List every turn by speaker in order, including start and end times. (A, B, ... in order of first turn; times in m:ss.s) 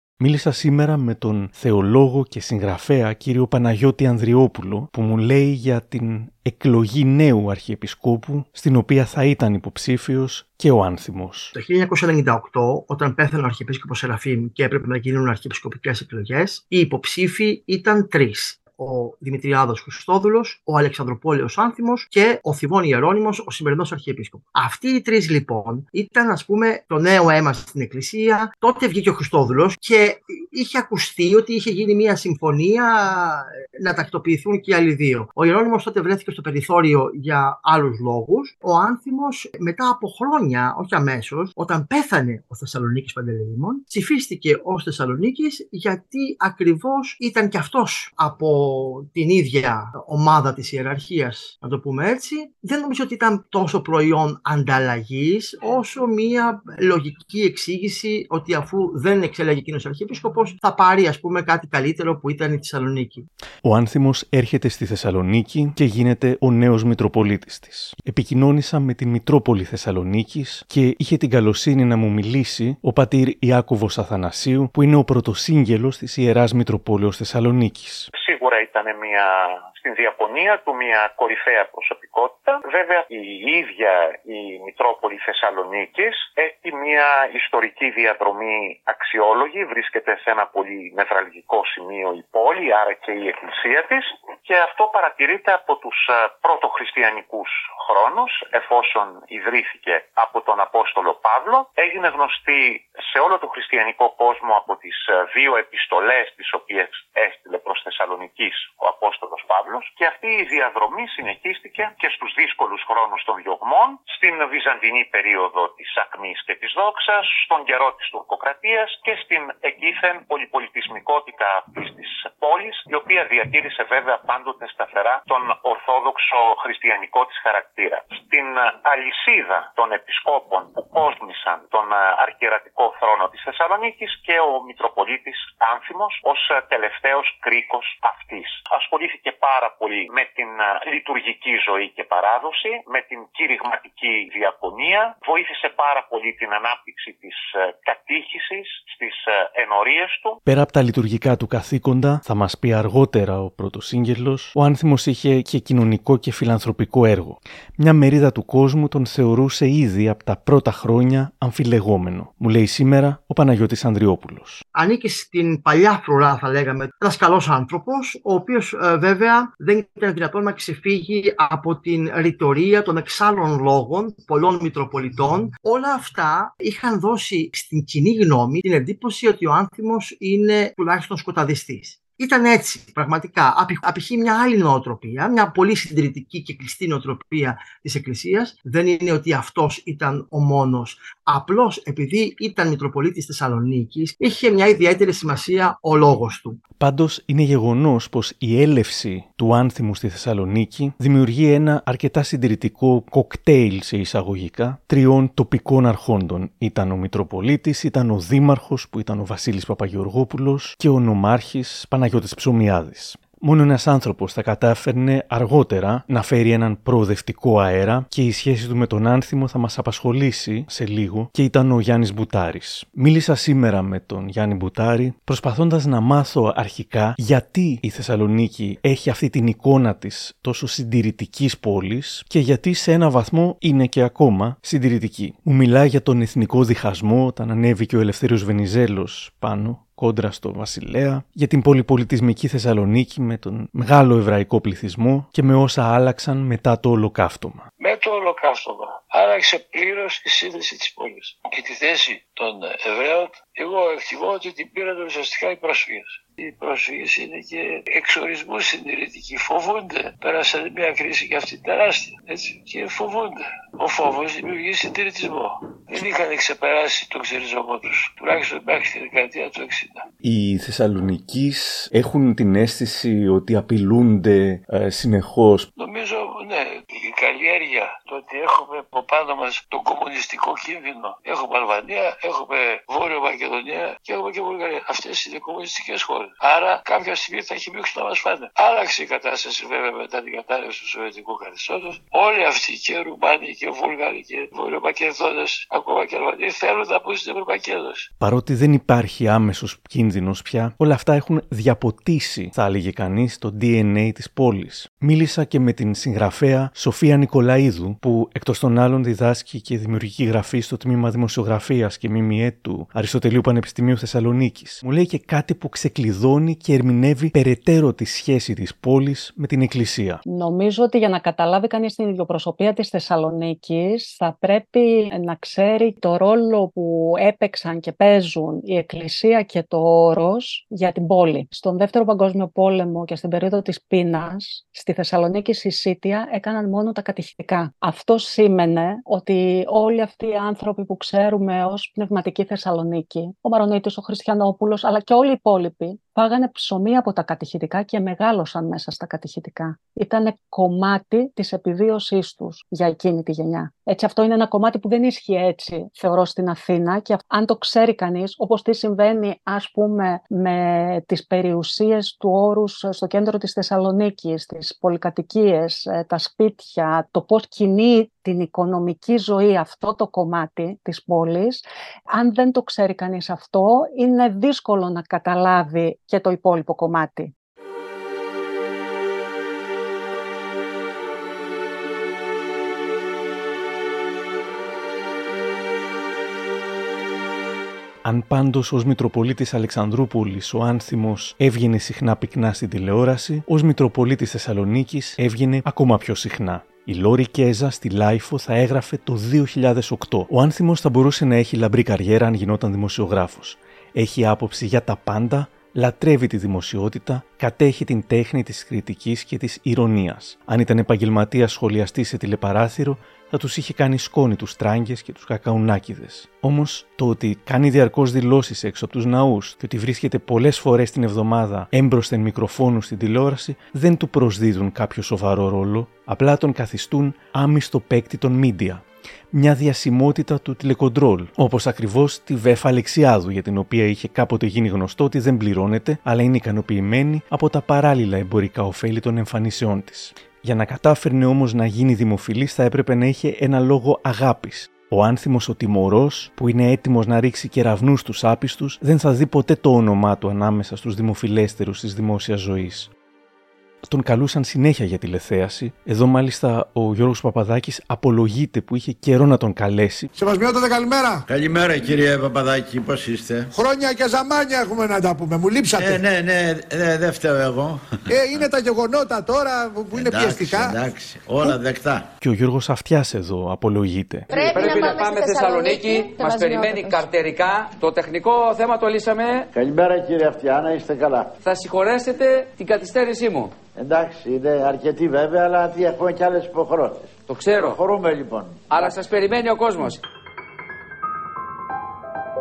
0:00.2-0:11.5 A
0:11.5-1:03.3 B
1:03.6-1:18.1 A
1:18.1-2:30.4 C
2:30.4-2:44.6 A
2:44.8-3:16.6 B
3:16.8-4:07.7 A
4:07.8-4:30.0 D
4:30.2-4:35.7 A
4:35.8-4:58.1 D
4:58.2-5:20.2 A
5:20.2-6:17.3 E
6:28.0-7:32.9 A
7:33.8-7:40.1 A
7:40.4-7:41.1 F
7:41.3-7:43.5 G
7:43.8-7:45.6 F
7:45.7-7:48.4 G
7:48.2-7:50.6 F
7:49.9-7:52.1 G
7:52.2-7:54.3 A
7:54.3-7:57.0 F
7:54.3-7:59.5 H
7:59.5-8:01.3 G
8:01.4-8:03.5 H
8:03.8-8:08.6 G
8:07.3-8:07.8 H
8:08.7-8:10.0 H